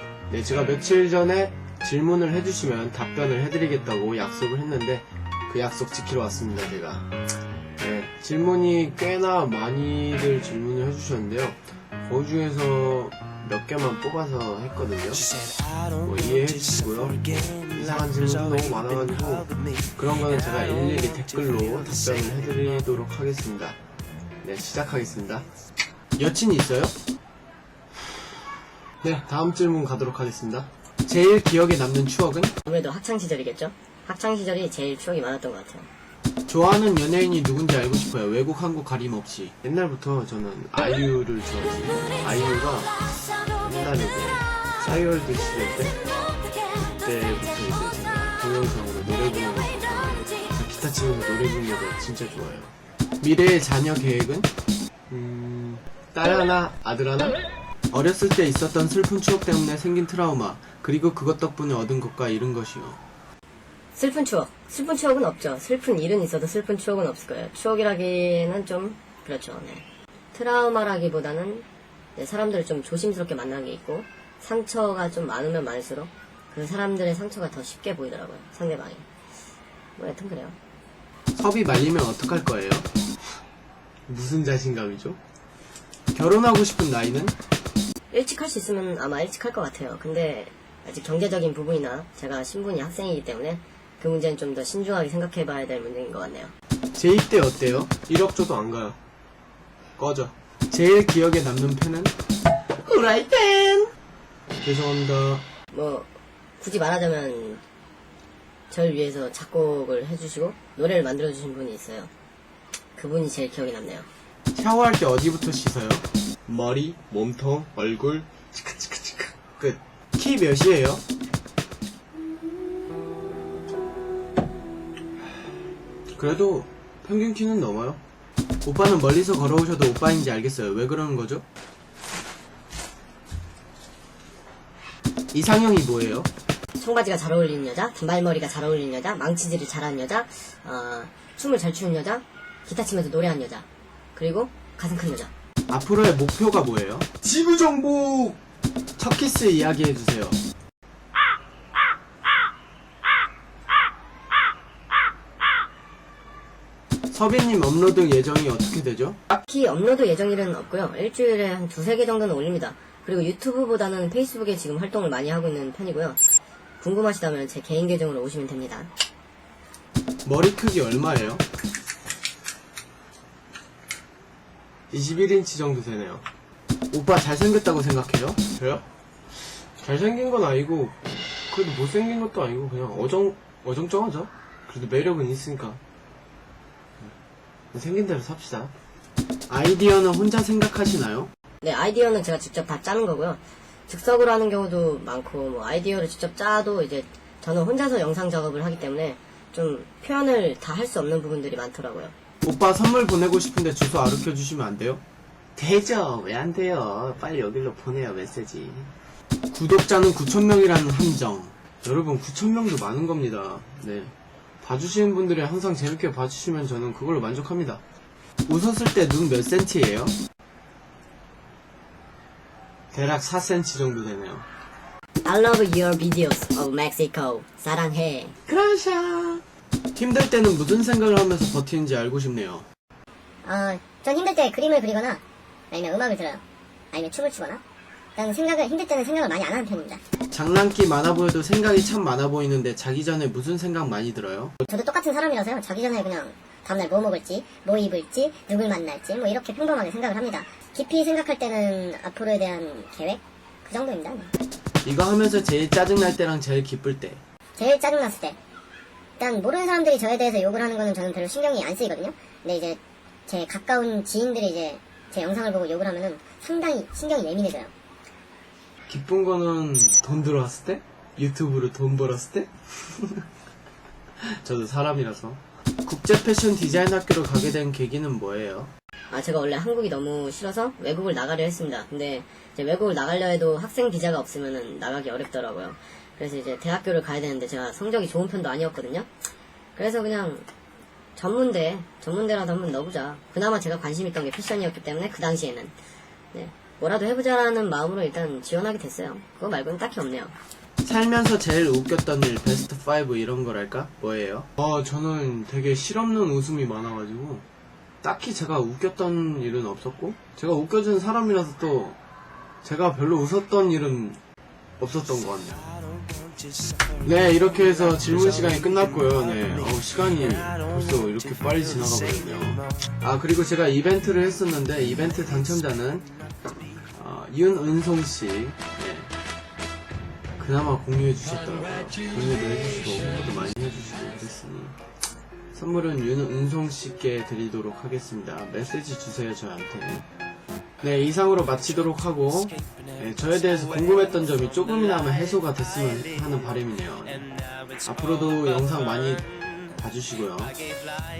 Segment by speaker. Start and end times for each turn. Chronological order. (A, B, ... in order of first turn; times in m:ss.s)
0:00.3-0:07.1 A
0:07.8-0:15.3 A
0:16.0-0:23.8 A
0:24.4-0:25.5 A
0:26.2-0:26.9 A
0:29.0-0:32.5 A
0:32.6-0:35.9 B
0:36.5-0:46.0 A
0:47.0-0:54.5 A
0:55.1-0:57.4 A
0:57.9-1:03.0 A
1:03.9-1:11.6 B
1:12.2-1:19.0 B
1:20.0-1:20.6 B
1:21.3-1:22.9 A
1:24.1-1:25.2 A
1:26.1-1:27.4 A
1:28.1-1:36.5 B
1:36.9-1:39.0 A
1:40.0-1:42.1 A
1:42.8-1:43.9 A
1:44.6-1:45.4 A
1:45.7-1:46.1 B
1:46.6-1:47.6 B
1:48.7-1:52.1 B
1:53.0-1:54.1 B
1:54.5-2:01.0 A
2:06.2-2:08.0 A
2:08.6-2:11.4 A
2:15.3-2:16.3 A
2:16.8-2:25.3 B
2:25.7-2:28.4 A
2:29.0-2:30.4 A
2:37.1-2:39.2 A
2:39.3-2:46.2 B
2:46.8-2:48.9 B
2:50.2-2:51.4 A
2:54.9-2:56.2 A
2:56.9-2:58.8 A
2:59.8-3:00.9 A
3:01.5-3:05.8 A
3:07.7-3:08.7 A
3:09.5-3:11.3 A
3:11.6-3:22.1 B
3:22.4-3:25.0 A
3:25.6-3:28.9 A
3:29.5-3:37.8 A
3:38.5-3:40.2 A
3:42.9-3:44.5 A
3:45.2-3:48.4 B
3:48.4-3:49.4 A
3:50.0-3:52.6 A
3:53.4-3:57.6 C
3:58.2-4:00.0 C
4:00.3-4:04.6 A
4:04.7-4:14.3 C
4:14.8-4:17.2 A
4:17.6-4:18.4 C
4:19.2-4:27.7 C
4:28.9-4:33.2 A
4:34.2-4:38.7 A
4:39.1-4:49.1 B
4:49.8-4:50.5 B
4:51.2-4:55.7 B
4:56.3-5:00.3 B
5:00.8-5:07.4 A
5:08.0-5:12.0 A
5:12.6-5:14.2 A
5:14.8-5:15.7 A
5:17.0-5:26.1 A
5:26.9-5:29.1 A
5:30.4-5:34.8 A
5:35.5-5:40.0 A
5:40.8-5:47.3 A
5:47.8-5:50.6 A